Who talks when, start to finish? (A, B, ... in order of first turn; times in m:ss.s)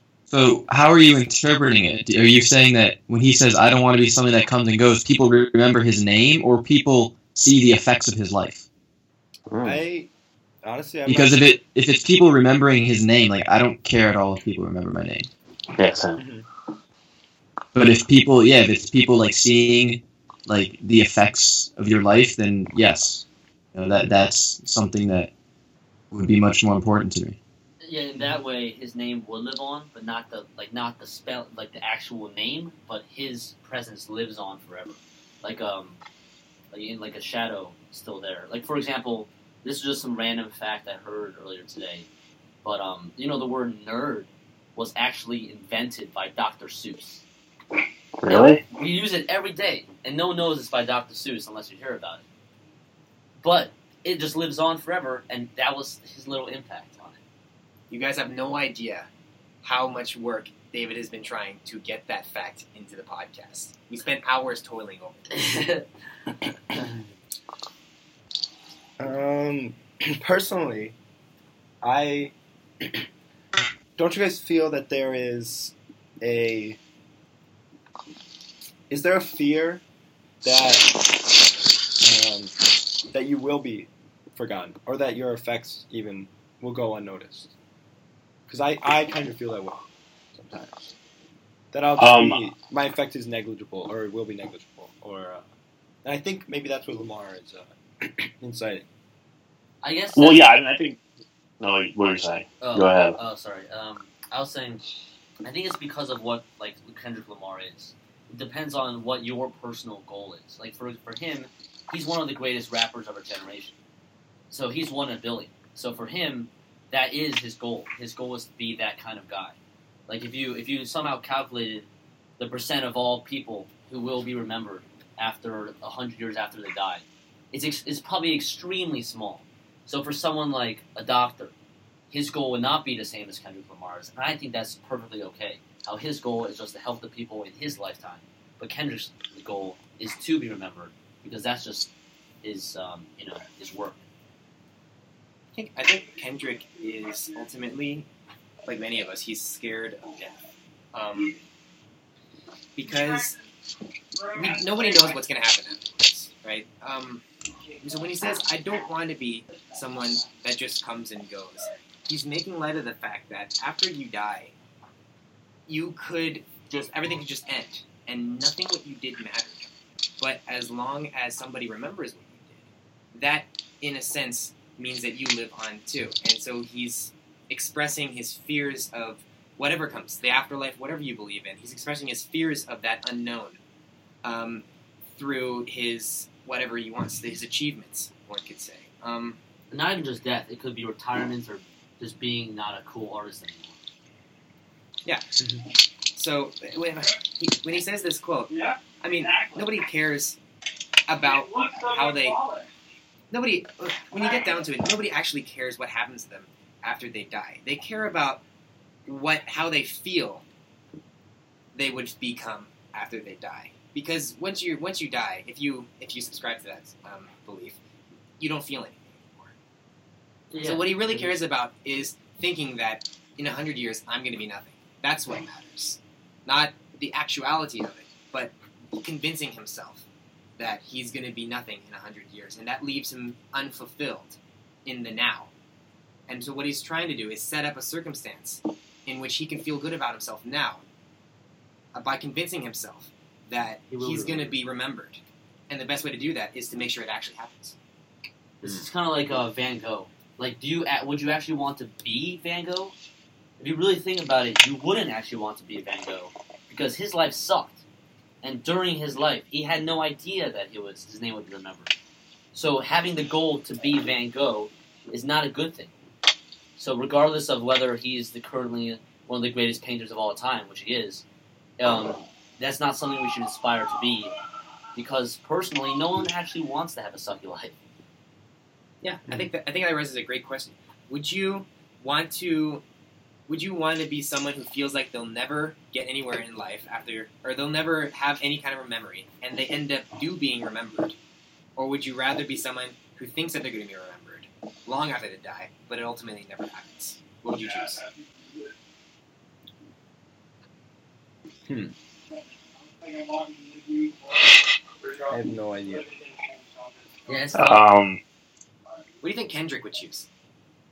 0:00.3-0:08.6 A
0:09.5-0:09.8 B
0:09.6-0:10.1 C
0:10.6-0:11.5 C
0:11.0-0:15.3 A
0:15.8-0:16.2 B
0:16.2-0:16.5 C
0:17.7-0:25.3 A
0:26.1-0:27.4 A
0:27.8-0:36.0 D
0:36.7-0:42.1 D
0:42.6-0:47.2 D
0:48.2-0:48.6 B
0:48.3-0:52.2 D
0:53.4-0:57.2 D
0:57.9-0:59.1 E
0:59.6-1:05.3 E
1:05.4-1:05.8 D
1:06.4-1:07.0 C
1:09.0-1:10.9 C
1:11.8-1:13.0 C
1:14.0-1:16.8 C
1:18.9-1:19.8 C
1:20.4-1:20.9 C
1:22.0-1:22.5 C
1:23.1-1:27.5 C
1:28.5-1:30.9 C
1:31.7-1:35.5 C
1:32.0-1:32.4 B
1:36.0-1:38.9 C
1:39.8-1:40.5 D
1:40.2-1:41.0 B
1:41.6-1:43.2 B
1:42.6-1:44.8 D
1:45.4-1:53.8 D
1:54.5-1:59.6 D
2:00.1-2:01.9 D
2:02.4-2:11.5 D
2:12.1-2:21.9 D
2:22.4-2:24.0 D
2:25.5-2:28.1 E
2:28.6-2:30.4 E
2:30.9-2:31.4 E
2:32.8-2:33.4 E
2:34.2-2:37.2 E
2:37.8-2:44.5 E
2:45.7-3:03.6 E
3:04.2-3:09.4 E
3:09.7-3:13.8 D
3:16.1-3:20.4 E
3:21.1-3:22.5 E
3:23.3-3:28.4 E
3:29.0-3:30.4 E
3:31.7-3:37.8 E
3:38.4-3:39.5 E
3:40.5-3:41.3 D
3:40.6-3:50.1 E
3:50.6-3:55.5 E
3:56.3-4:00.8 E
4:01.9-4:07.8 E
4:04.0-4:04.4 C
4:04.1-4:04.4 D
4:08.6-4:12.9 D
4:13.6-4:17.8 D
4:18.4-4:21.9 D
4:22.5-4:25.9 D
4:26.8-4:31.2 D
4:31.8-4:34.3 D
4:34.9-4:37.8 D
4:39.0-4:42.8 E
4:43.5-4:51.2 E
4:51.8-4:58.1 E
5:01.7-5:01.9 C
5:05.2-5:06.1 C
5:07.3-5:07.8 D
5:07.5-5:08.2 B
5:09.2-5:10.3 E